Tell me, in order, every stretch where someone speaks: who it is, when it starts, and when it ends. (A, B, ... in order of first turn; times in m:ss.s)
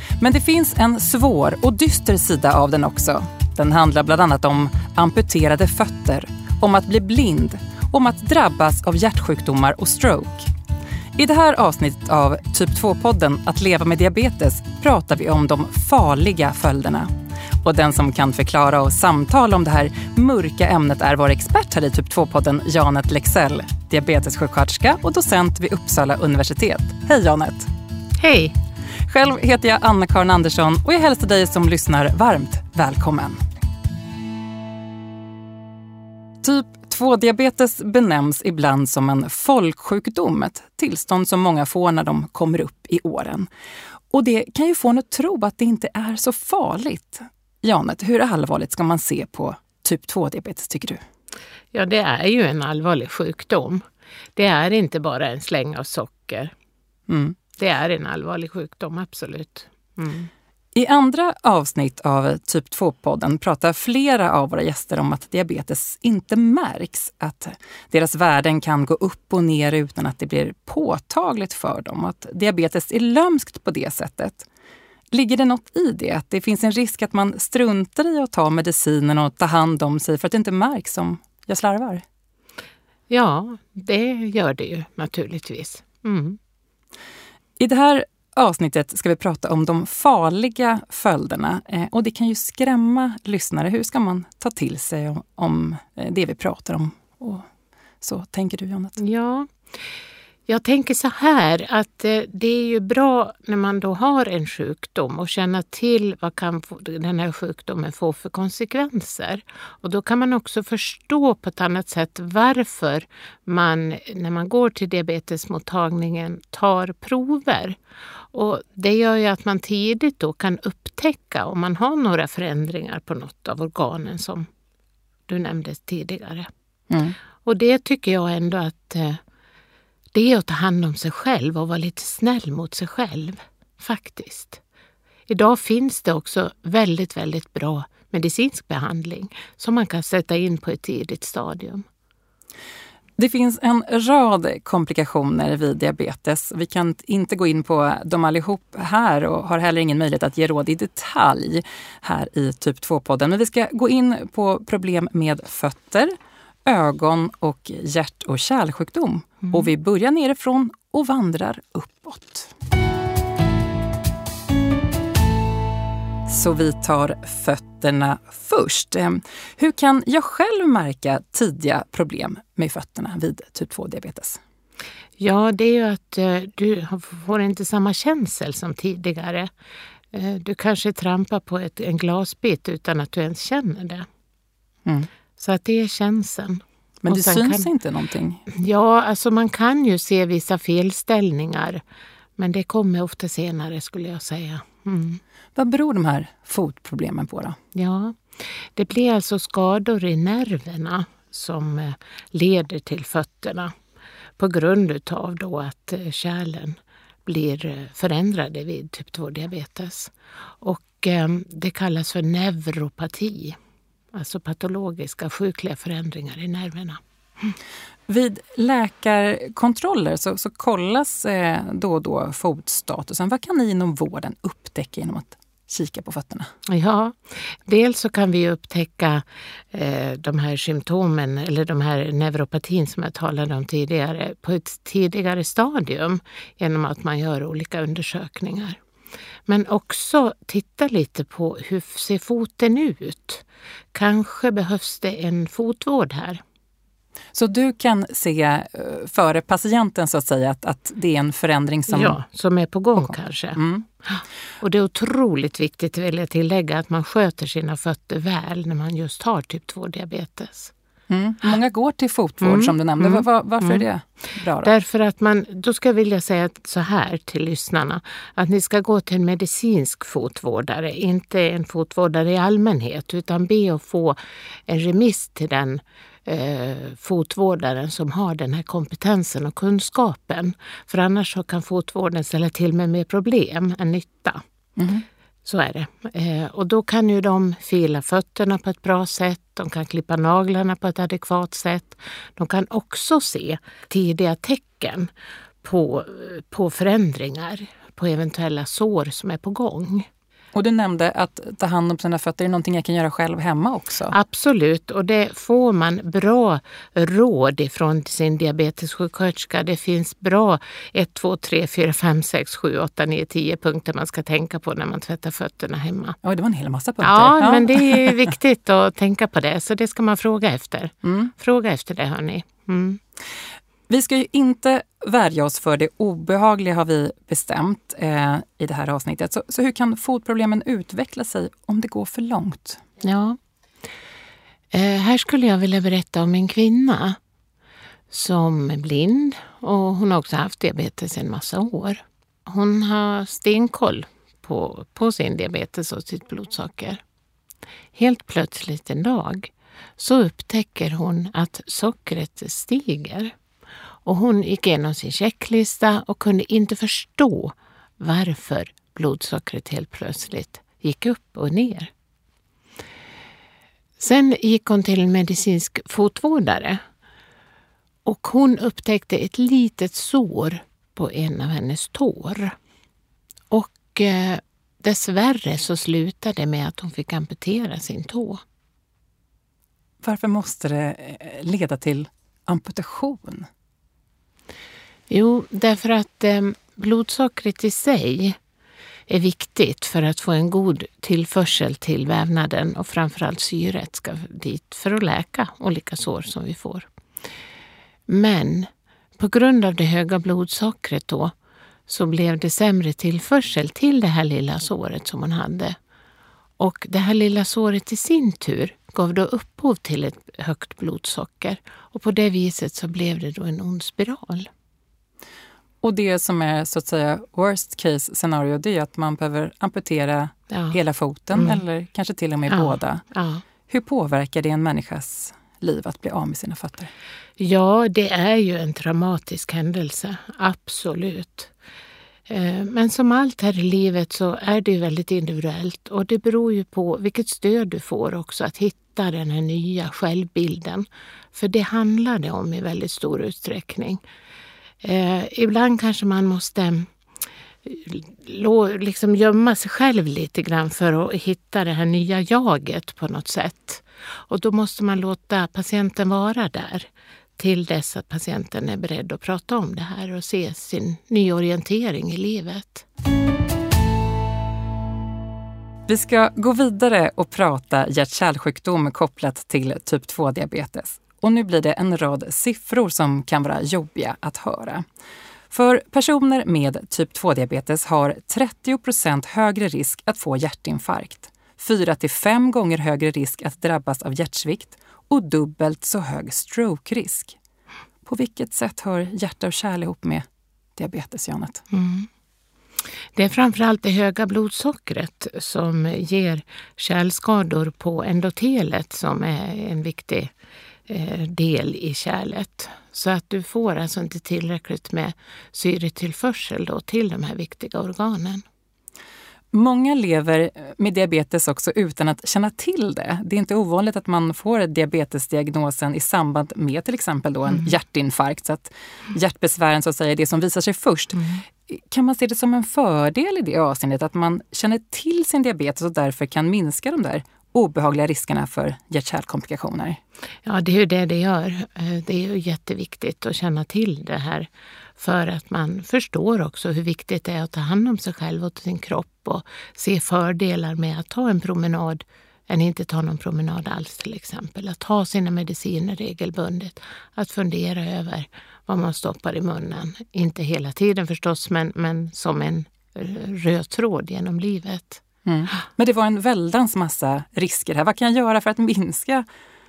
0:00.2-0:10.4 A
0:11.2-0:17.1 A
0:17.6-0:27.7 A
0:28.2-0:28.5 B
0:29.1-0:33.4 A
0:36.4-0:43.5 A
0:44.1-0:51.0 A
0:51.7-0:53.8 B
0:54.4-0:56.5 B
0:57.1-0:57.4 A
0:57.6-1:00.3 B
1:00.7-1:14.4 A
1:15.1-1:22.0 A
1:23.1-1:26.4 B
1:27.6-1:37.5 A
1:38.0-1:39.0 A
1:39.0-1:39.5 B
1:40.5-1:57.8 B
1:58.3-2:04.5 B
2:05.3-2:06.5 B
2:06.9-2:07.2 A
2:07.4-2:09.2 B
2:10.1-2:14.6 B
2:15.3-2:21.8 B
2:23.2-2:36.1 A
2:36.6-2:42.5 A
2:46.2-2:54.4 A
2:55.2-2:59.5 B
3:00.1-3:04.1 B
3:05.4-3:07.7 B
3:07.0-3:08.4 A
3:08.5-3:11.8 B
3:12.4-3:15.2 B
3:15.5-3:17.6 A
3:17.7-3:23.7 B
3:24.4-3:33.6 B
3:34.1-3:37.0 B
3:38.1-3:46.5 A
3:46.7-3:58.8 B
3:59.5-4:06.4 B
4:07.3-4:12.2 A
4:11.9-4:20.7 B
4:13.6-4:13.8 A
4:21.1-4:24.7 A
4:22.4-4:23.8 B
4:24.6-4:44.4 B
4:44.8-4:45.0 A
4:45.4-4:55.1 B
4:55.6-5:00.1 B
5:00.5-5:04.1 A
5:04.1-5:16.2 B
5:16.2-5:18.3 A
5:17.0-5:23.0 B
5:21.0-5:21.3 A
5:23.9-5:32.8 A
5:33.0-5:33.4 B
5:34.7-5:37.2 B
5:38.1-5:47.0 B
5:47.9-5:53.3 B
5:54.0-6:01.9 B
6:04.0-6:06.8 B
6:08.0-6:12.6 B
6:13.5-6:18.4 B
6:20.0-6:23.5 A
6:25.1-6:28.4 B
6:29.1-6:36.9 B
6:38.1-6:41.3 B
6:41.9-6:45.8 B
6:46.6-6:54.5 B
6:55.8-7:03.0 A
7:00.5-7:00.8 B
7:01.3-7:01.6 B
7:02.5-7:03.4 B
7:03.7-7:06.9 A
7:07.4-7:11.5 B
7:12.3-7:24.0 B
7:24.8-7:26.9 B
7:27.6-7:42.8 B
7:45.9-7:54.8 A
7:55.5-8:07.4 A
8:08.0-8:10.2 A
8:10.8-8:11.6 A
8:11.7-8:12.1 B
8:13.1-8:20.3 B
8:20.9-8:28.4 B
8:29.5-8:50.0 A
8:50.4-9:15.0 B
9:15.2-9:19.2 A